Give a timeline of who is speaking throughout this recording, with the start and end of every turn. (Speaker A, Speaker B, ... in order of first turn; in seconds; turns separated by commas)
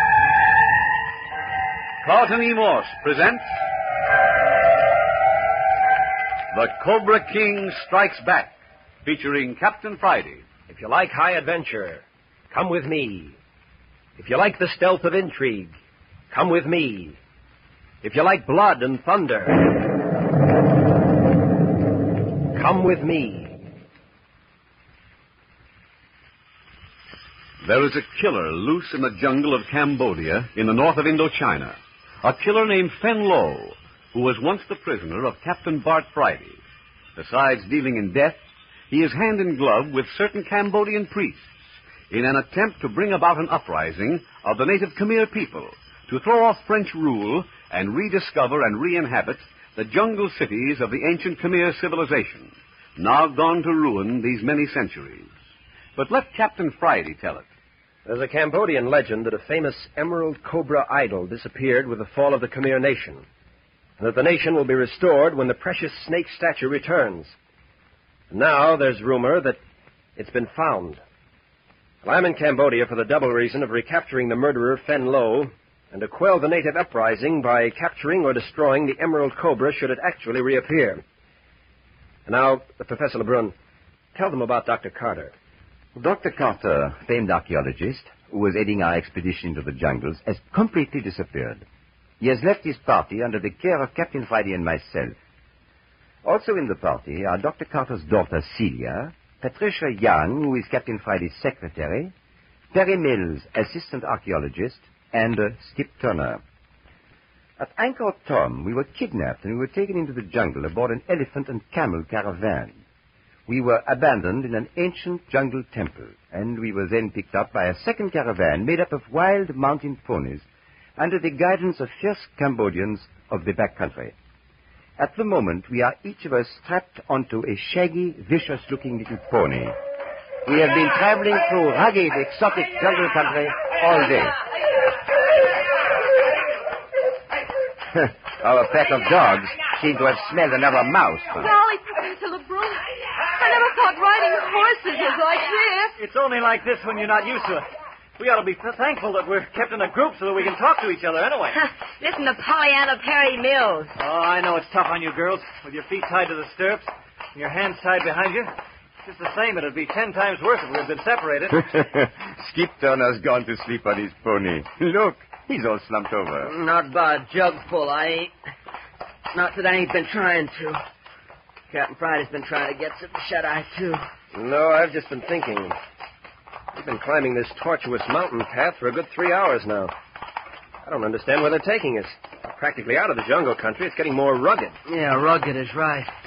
Speaker A: 2.0-3.4, Speaker A: 6.5-10.4, Speaker B: 10.7-13.4, Speaker B: 14.2-15.8, Speaker B: 16.3-17.2, Speaker B: 18.0-19.7, Speaker B: 22.5-23.6, Speaker A: 27.6-36.6, Speaker A: 37.2-41.5, Speaker A: 42.1-55.3, Speaker A: 56.0-57.5, Speaker B: 58.0-63.3, Speaker B: 64.0-67.3, Speaker B: 68.3-69.6, Speaker B: 70.2-71.0, Speaker B: 72.0-81.0, Speaker B: 82.3-83.5, Speaker B: 84.1-85.3, Speaker C: 86.0-91.6, Speaker C: 92.2-95.2, Speaker C: 96.2-102.1, Speaker C: 102.7-106.4, Speaker C: 107.6-112.8, Speaker C: 113.5-120.5, Speaker C: 121.0-124.2, Speaker C: 125.0-129.8, Speaker C: 130.4-134.4, Speaker C: 137.9-141.5, Speaker D: 141.4-146.0, Speaker E: 146.0-147.7, Speaker E: 148.2-151.6, Speaker F: 151.6-153.9, Speaker E: 154.0-161.7, Speaker C: 161.6-166.6, Speaker G: 166.4-168.3, Speaker G: 169.3-170.8, Speaker G: 171.7-174.1, Speaker B: 174.3-175.8, Speaker B: 176.7-179.9, Speaker B: 180.8-184.8, Speaker G: 184.9-186.1